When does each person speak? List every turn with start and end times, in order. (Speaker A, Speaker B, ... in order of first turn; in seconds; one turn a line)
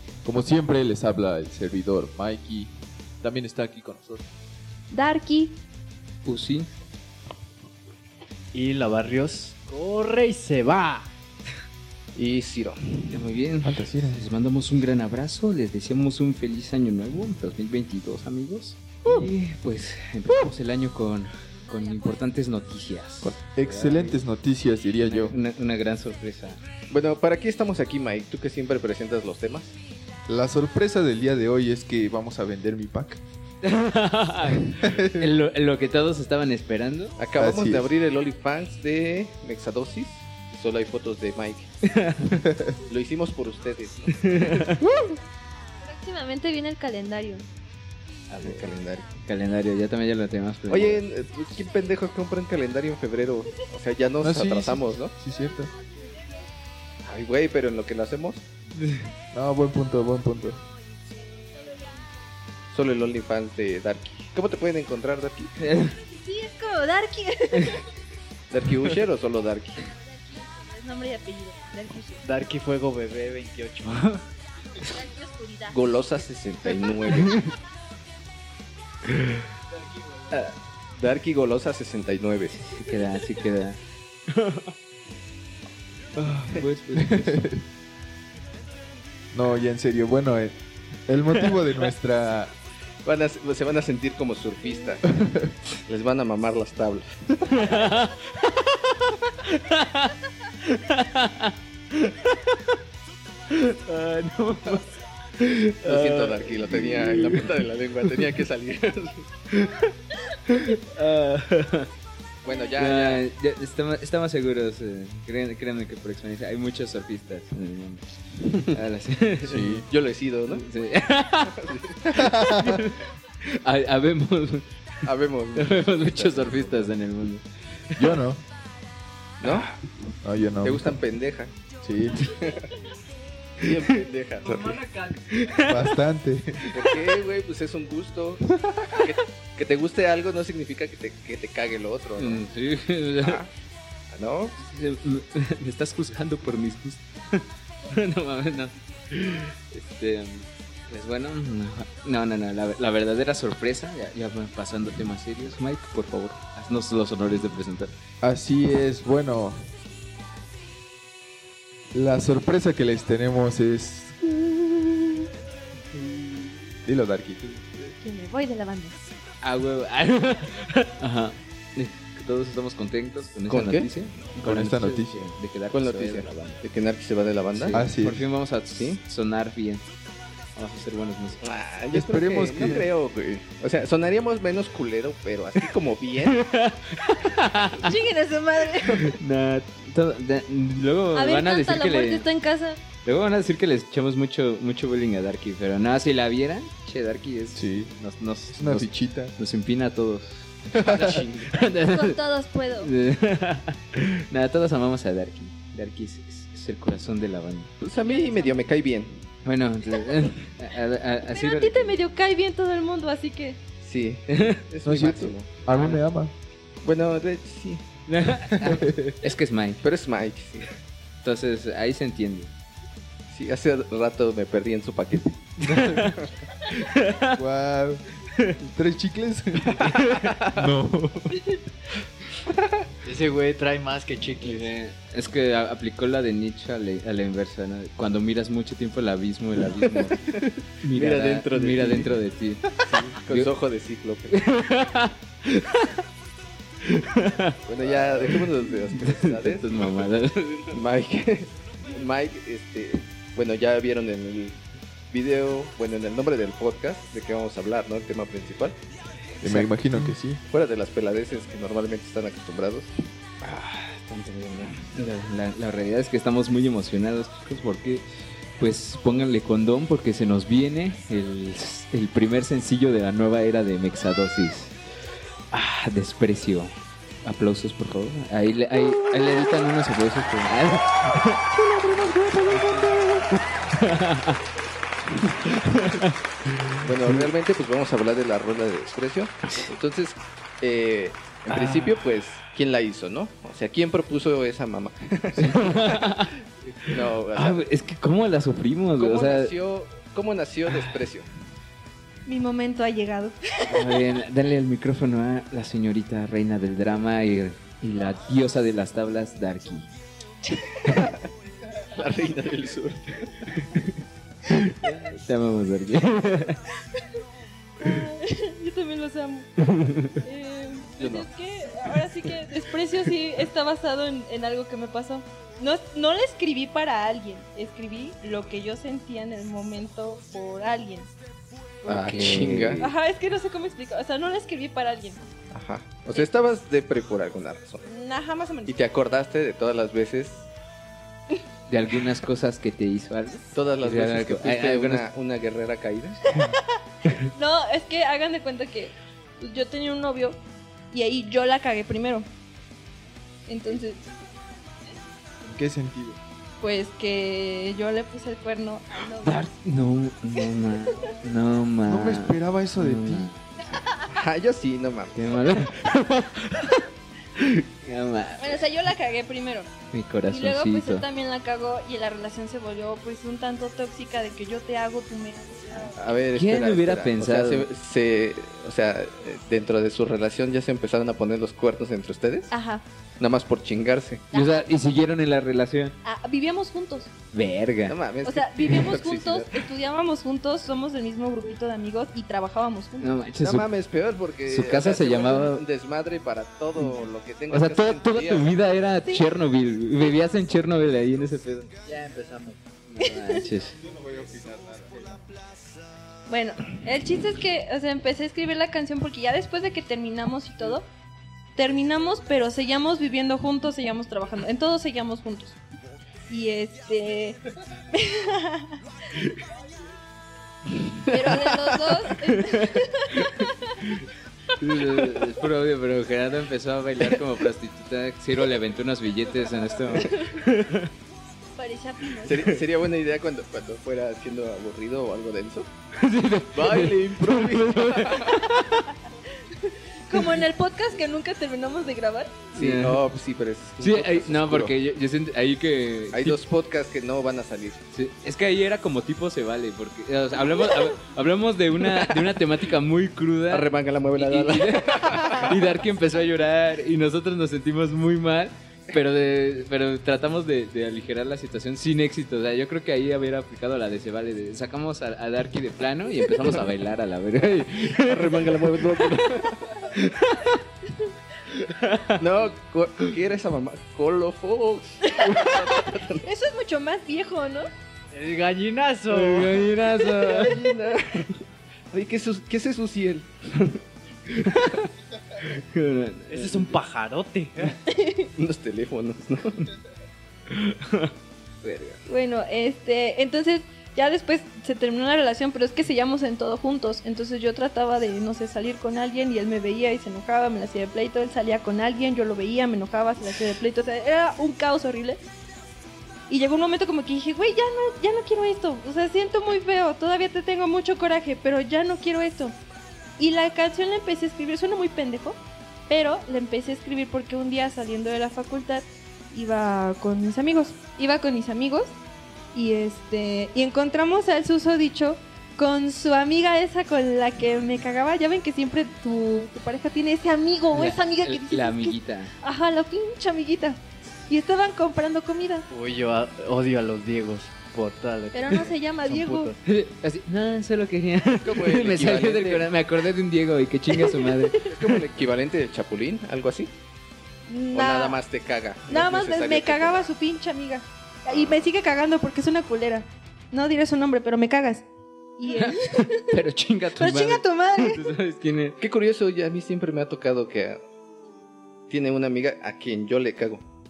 Speaker A: 0.2-2.7
Speaker A: 3.2-4.3
Speaker B: 4.9-5.6
Speaker C: 6.2-6.7
Speaker D: 8.5-11.1
Speaker E: 12.1-13.2
Speaker C: 13.1-24.2
Speaker A: 13.6-14.2
Speaker A: 23.2-25.4
Speaker C: 25.1-26.6
Speaker E: 26.9-29.7
Speaker A: 30.3-33.2
Speaker C: 33.6-37.2
Speaker A: 34.6-35.3
Speaker E: 37.2-41.7
Speaker A: 37.4-37.9
Speaker C: 41.8-42.5
Speaker E: 42.9-44.7
Speaker C: 44.2-44.8
Speaker B: 45.8-47.5
Speaker C: 48.3-51.0
Speaker E: 48.4-49.1
Speaker E: 50.7-55.1
Speaker A: 54.2-55.7
Speaker E: 57.0-58.4
Speaker C: 58.8-59.0
Speaker A: 59.3-60.6
Speaker B: 61.4-61.9
Speaker E: 62.7-65.5
Speaker C: 65.6-66.0
Speaker B: 66.0-67.9
Speaker E: 68.5-69.8
Speaker B: 70.3-72.2
Speaker D: 72.2-74.2
Speaker B: 74.8-76.0
Speaker E: 75.7-77.5
Speaker C: 77.1-77.3
Speaker E: 80.3-82.7
Speaker C: 82.6-84.7
Speaker C: 86.2-87.4
Speaker A: 87.0-87.6
Speaker A: 89.3-90.5
Speaker A: 91.1-92.5
Speaker C: 91.4-91.7
Speaker E: 93.0-95.0
Speaker A: 95.1-95.5
Speaker E: 95.8-97.7
Speaker C: 97.5-98.9
Speaker C: 99.4-102.7
Speaker C: 103.5-108.2
Speaker E: 105.8-109.4
Speaker C: 109.5-111.9
Speaker E: 112.4-113.2
Speaker B: 112.5-112.7
Speaker C: 112.8-119.8
Speaker A: 119.4-119.8
Speaker E: 119.9-120.6
Speaker C: 120.5-128.2
Speaker E: 121.5-122.3
Speaker A: 122.2-122.8
Speaker E: 125.0-126.9
Speaker A: 128.0-128.4
Speaker E: 129.4-129.7
Speaker C: 129.4-129.7
Speaker A: 130.2-130.9
Speaker E: 130.6-131.5
Speaker A: 131.8-132.2
Speaker E: 132.3-132.7
Speaker E: 133.6-134.8
Speaker C: 133.6-135.9
Speaker A: 135.7-136.7
Speaker E: 136.7-142.4
Speaker C: 136.7-137.1
Speaker C: 142.2-143.4
Speaker E: 143.2-143.5
Speaker E: 144.1-144.6
Speaker C: 144.6-157.9
Speaker A: 158.2-159.7
Speaker A: 161.9-165.2
Speaker A: 166.8-167.6
Speaker B: 168.0-169.0
Speaker C: 169.4-176.6
Speaker E: 173.5-173.9
Speaker A: 174.4-175.3
Speaker E: 175.7-177.9
Speaker C: 177.5-179.8
Speaker A: 177.7-178.2
Speaker C: 180.6-181.4
Speaker E: 181.4-186.4
Speaker A: 181.9-182.9
Speaker C: 186.2-188.0
Speaker B: 187.8-189.1
Speaker C: 188.8-192.2
Speaker B: 191.1-192.8
Speaker C: 193.0-202.2
Speaker A: 197.5-197.9
Speaker A: 198.5-199.3
Speaker A: 200.7-201.2
Speaker E: 200.9-201.5
Speaker B: 201.9-202.9
Speaker C: 202.8-207.7
Speaker E: 207.8-209.3
Speaker B: 208.0-208.7
Speaker C: 209.4-212.0
Speaker B: 211.3-213.6
Speaker E: 213.8-215.5
Speaker A: 214.8-216.3
Speaker E: 216.8-218.0
Speaker C: 218.1-219.8
Speaker E: 219.8-220.7
Speaker C: 221.2-222.5
Speaker E: 223.3-225.5
Speaker C: 225.6-227.4
Speaker A: 225.7-226.2
Speaker A: 227.3-228.0
Speaker A: 228.6-231.4
Speaker C: 229.6-230.4
Speaker E: 230.1-230.6
Speaker D: 233.0-234.7
Speaker C: 234.4-243.5
Speaker E: 239.8-242.2
Speaker E: 242.8-244.4
Speaker C: 244.3-246.0
Speaker C: 246.8-250.8
Speaker E: 247.7-250.1
Speaker E: 250.7-258.8
Speaker A: 259.4-260.4
Speaker E: 260.4-262.9
Speaker C: 263.4-268.1
Speaker C: 268.6-274.8
Speaker C: 275.5-276.7
Speaker C: 277.2-284.4
Speaker C: 285.2-287.3
Speaker E: 286.8-296.1
Speaker C: 289.5-289.7
Speaker C: 291.5-292.1
Speaker C: 295.4-299.5
Speaker E: 296.9-297.6
Speaker E: 299.0-301.3
Speaker C: 300.6-301.0
Speaker B: 302.2-304.0
Speaker C: 303.7-309.9
Speaker E: 310.9-311.1
Speaker E: 311.9-313.5
Speaker C: 313.5-313.9
Speaker C: 314.5-316.6
Speaker B: 317.8-319.5
Speaker C: 319.6-320.2
Speaker B: 320.1-331.1
Speaker E: 321.0-321.3
Speaker B: 331.8-335.2
Speaker E: 331.9-332.8
Speaker C: 331.9-332.9
Speaker E: 335.5-337.8
Speaker B: 337.8-338.8
Speaker E: 338.7-340.5
Speaker C: 341.7-345.0
Speaker E: 343.5-346.3
Speaker B: 346.3-346.6
Speaker B: 347.2-350.4
Speaker B: 350.9-352.3
Speaker B: 353.5-354.0
Speaker A: 355.4-356.2
Speaker B: 356.6-359.4
Speaker C: 359.2-363.7
Speaker A: 361.8-363.3
Speaker E: 364.1-365.1
Speaker C: 365.1-368.6
Speaker B: 368.4-369.7
Speaker C: 369.9-371.0
Speaker B: 370.3-376.1
Speaker E: 375.9-382.5
Speaker C: 376.3-377.7
Speaker B: 382.5-382.8
Speaker E: 383.2-384.3
Speaker B: 384.3-384.7
Speaker C: 384.3-385.9
Speaker B: 386.0-387.1
Speaker C: 387.3-388.0
Speaker E: 387.9-389.6
Speaker B: 388.2-393.2
Speaker C: 393.0-393.7
Speaker E: 393.4-398.5
Speaker C: 394.4-395.6
Speaker C: 397.5-401.7
Speaker D: 401.9-402.6
Speaker C: 402.9-403.8
Speaker B: 403.0-403.4
Speaker A: 403.9-405.2
Speaker B: 406.3-410.9
Speaker B: 411.6-415.6
Speaker B: 416.3-417.4
Speaker B: 417.9-418.7
Speaker B: 421.1-423.2
Speaker C: 422.4-424.0
Speaker C: 424.6-430.9
Speaker B: 431.6-432.5
Speaker E: 432.2-435.7
Speaker C: 435.9-438.8
Speaker E: 436.5-438.6
Speaker B: 439.5-442.4
Speaker E: 442.5-444.7
Speaker C: 442.5-443.0
Speaker C: 443.8-446.4
Speaker E: 446.1-447.8
Speaker C: 447.9-469.2
Speaker E: 451.8-452.3
Speaker E: 453.5-455.8
Speaker E: 467.9-469.9
Speaker C: 469.9-470.6
Speaker C: 471.5-472.3
Speaker E: 472.2-476.3
Speaker B: 475.0-477.7
Speaker D: 478.1-479.8
Speaker C: 479.1-480.6
Speaker E: 480.0-483.3
Speaker C: 484.3-484.8
Speaker E: 484.5-484.8
Speaker C: 485.4-486.8
Speaker D: 486.3-487.8
Speaker B: 487.9-488.3
Speaker E: 488.4-489.6
Speaker C: 490.5-492.0
Speaker B: 492.1-505.2
Speaker B: 506.3-512.5
Speaker B: 513.2-522.0
Speaker B: 522.5-535.7
Speaker C: 530.7-532.3
Speaker D: 535.7-539.6
Speaker B: 538.3-539.5
Speaker C: 539.6-544.7
Speaker E: 541.4-542.7
Speaker B: 543.9-544.8
Speaker E: 544.7-546.7
Speaker B: 547.5-548.2
Speaker E: 547.7-550.1
Speaker B: 548.9-554.9
Speaker E: 551.3-551.5
Speaker B: 555.4-556.3
Speaker C: 555.5-558.8
Speaker B: 557.0-558.0
Speaker E: 558.8-560.8
Speaker E: 561.9-563.6